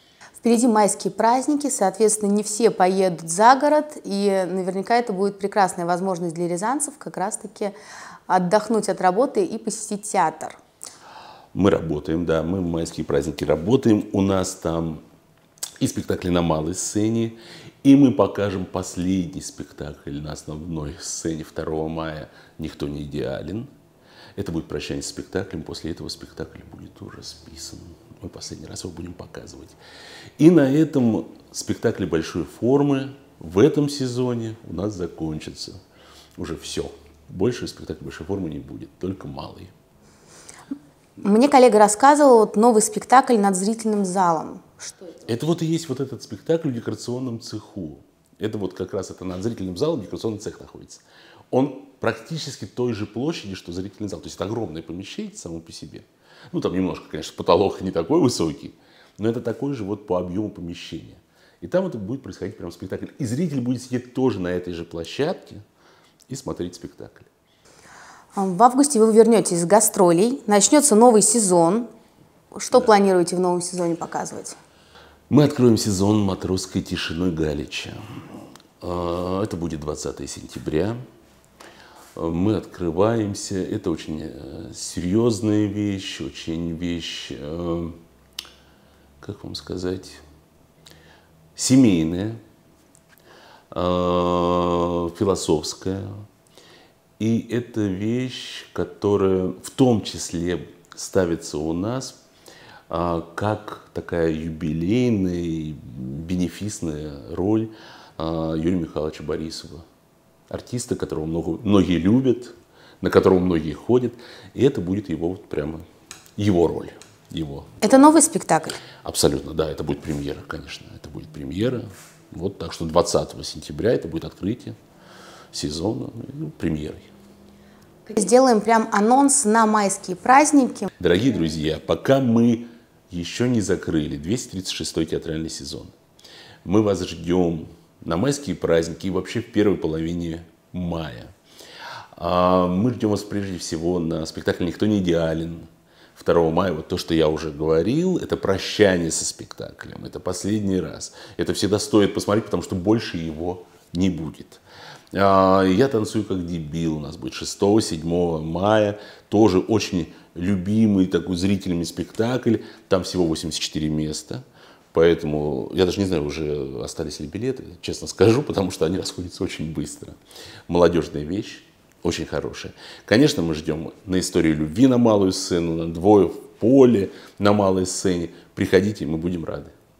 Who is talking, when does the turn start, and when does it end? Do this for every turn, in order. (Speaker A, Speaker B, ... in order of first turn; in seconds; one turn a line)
Speaker A: 0.4-7.8
Speaker A: 8.3-10.6
Speaker B: 11.5-15.0
Speaker B: 15.8-23.7
Speaker B: 24.4-29.8
Speaker B: 30.4-35.8
Speaker B: 36.4-39.7
Speaker A: 41.2-45.2
Speaker B: 45.3-65.6
Speaker B: 66.3-67.3
Speaker A: 68.4-71.9
Speaker A: 72.5-74.6
Speaker B: 75.3-78.3
Speaker B: 78.8-81.0
Speaker B: 82.2-88.0
Speaker B: 89.2-90.2
Speaker B: 91.5-92.4
Speaker B: 93.7-96.1
Speaker B: 97.2-102.2
Speaker B: 102.9-109.8
Speaker B: 110.5-115.8
Speaker B: 116.4-117.8
Speaker A: 117.8-118.8
Speaker B: 119.0-124.8
Speaker B: 125.5-127.1
Speaker A: 128.1-130.9
Speaker B: 131.0-135.9
Speaker B: 136.6-141.3
Speaker B: 142.2-154.6
Speaker B: 155.1-179.7